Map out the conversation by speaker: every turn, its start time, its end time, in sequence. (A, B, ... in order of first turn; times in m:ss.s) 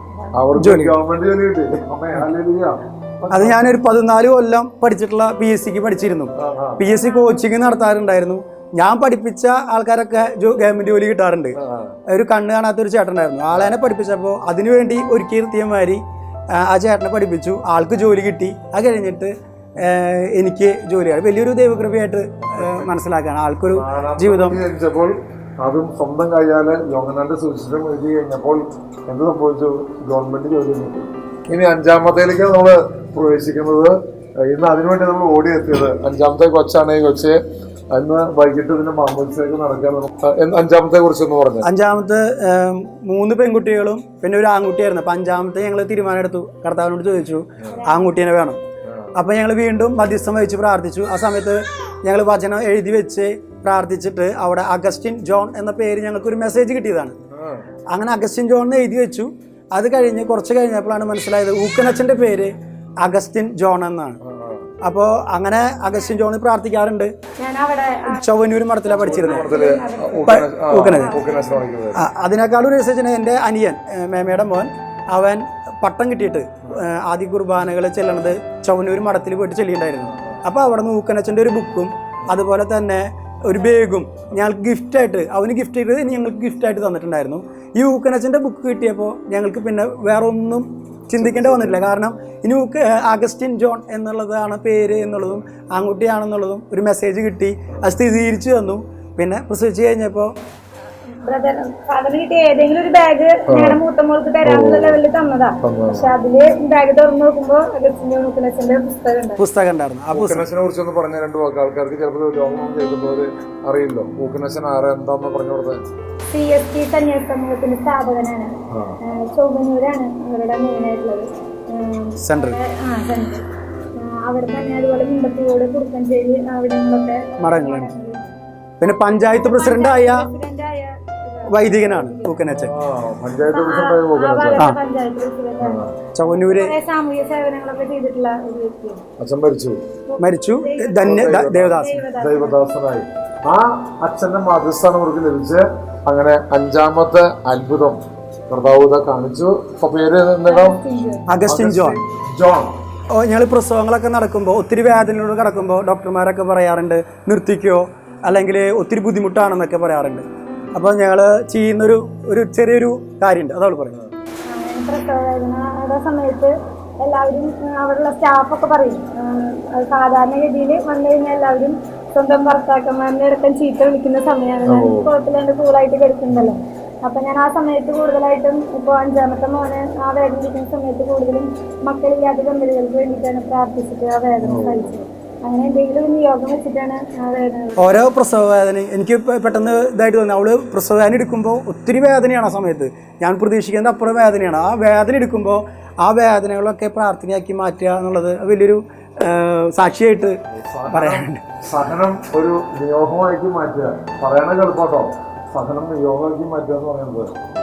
0:00.3-0:03.7 A
0:00.6-0:01.0 B
0:03.3-0:11.6 B
0:06.4-0:06.8 A
0:07.0-0:07.4 C
0:11.5-0:12.0 A
0:12.1-0:16.0 B
0:16.6-0:24.6 B
0:22.5-0:22.9 A
0:23.7-0:37.4 A
0:37.9-0:41.7 A
0:41.6-0:48.6 B
0:47.7-0:48.1 C
0:48.8-0:49.1 A
0:49.2-0:57.1 B
0:57.3-0:57.6 A
0:57.9-1:04.2 B
1:04.2-1:04.7 A
1:04.8-1:07.1 B
1:07.4-1:08.3 C
1:08.1-1:09.6 B
1:08.8-1:11.6 C
1:08.9-1:12.0 A
1:10.2-1:11.2 B
1:11.9-1:40.3 B
1:20.1-1:20.4 A
1:31.1-1:31.8 A
1:41.2-1:49.4 C
1:43.5-1:43.8 A
1:44.4-1:45.0 A
1:45.6-1:46.1 A
1:49.4-1:50.4 B
1:50.1-1:55.8 A
1:56.3-1:58.5 C
1:58.7-1:59.0 A
1:59.0-2:03.4 C
2:02.2-2:02.6 B
2:04.0-2:08.3 C
2:07.4-2:07.9 B
2:08.8-2:10.3 B
2:09.1-2:12.5 C
2:11.5-2:12.7 B
2:12.5-2:14.7 A
2:13.3-2:19.0 C
2:15.6-2:15.9 A
2:16.1-2:16.7 B
2:19.2-2:19.8 A
2:20.1-2:22.6 C
2:20.2-2:22.0 B
2:21.0-2:30.8 A
2:30.4-2:31.3 C
2:31.3-2:32.0 B
2:31.4-2:32.7 A
2:33.2-2:44.0 B
2:44.5-3:08.0 C
2:54.6-2:55.1 A
3:04.4-3:04.9 A
3:07.8-3:20.4 B
3:20.5-3:27.3 A
3:20.9-3:21.4 B